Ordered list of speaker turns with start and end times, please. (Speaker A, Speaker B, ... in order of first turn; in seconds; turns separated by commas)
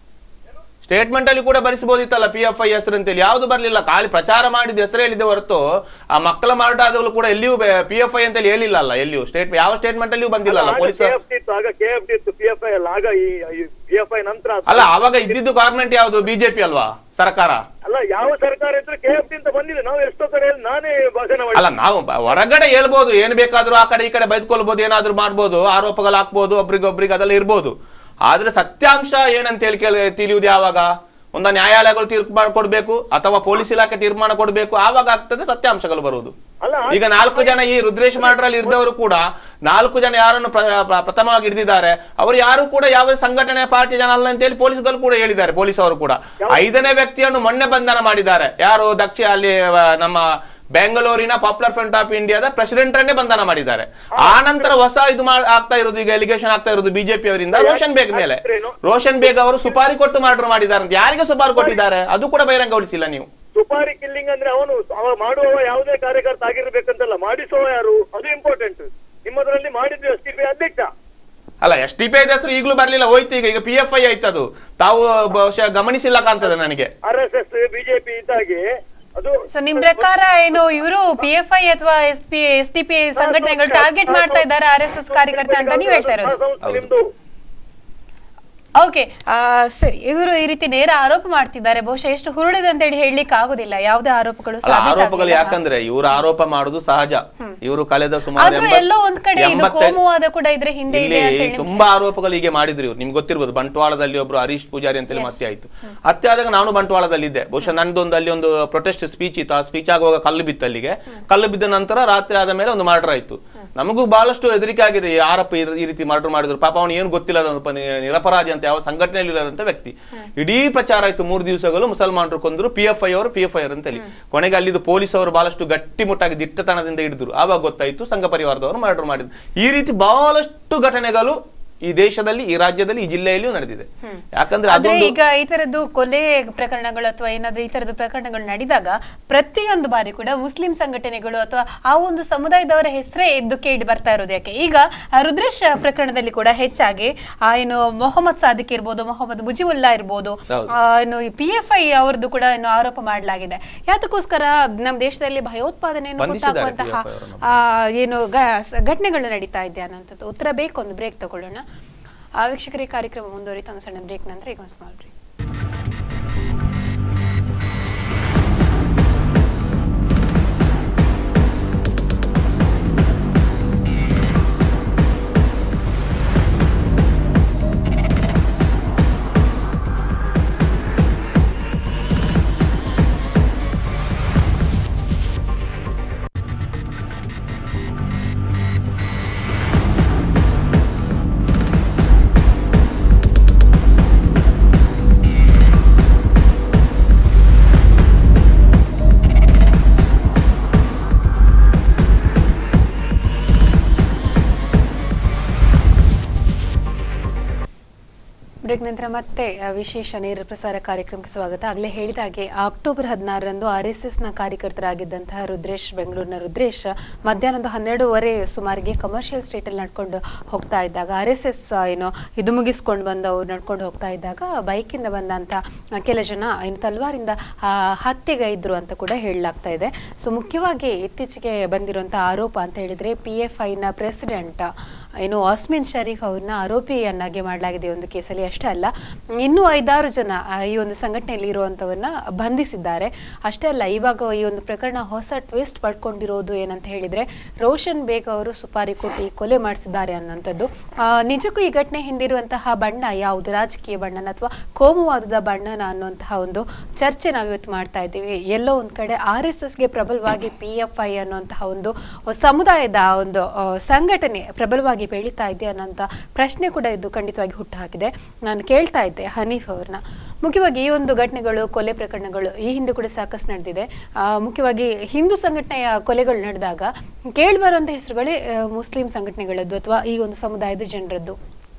Speaker A: 0.8-11.2, Speaker B: 10.5-15.3, Speaker A: 14.7-17.6, Speaker B: 17.9-21.7, Speaker A: 21.5-27.7, Speaker A: 28.3-36.3, Speaker B: 36.6-37.6, Speaker A: 36.9-63.3, Speaker B: 57.5-58.8, Speaker B: 63.6-70.9, Speaker A: 71.6-76.9, Speaker B: 77.0-78.7, Speaker B: 79.2-80.0, Speaker C: 79.5-86.4, Speaker B: 83.2-84.4, Speaker B: 85.2-87.0, Speaker A: 86.6-86.9, Speaker C: 88.8-95.6, Speaker A: 94.6-100.0, Speaker C: 98.4-102.0, Speaker A: 100.9-135.2, Speaker C: 105.1-105.4, Speaker C: 134.1-161.6, Speaker A: 156.2-157.6, Speaker C: 162.4-165.1, Speaker C: 208.7-281.4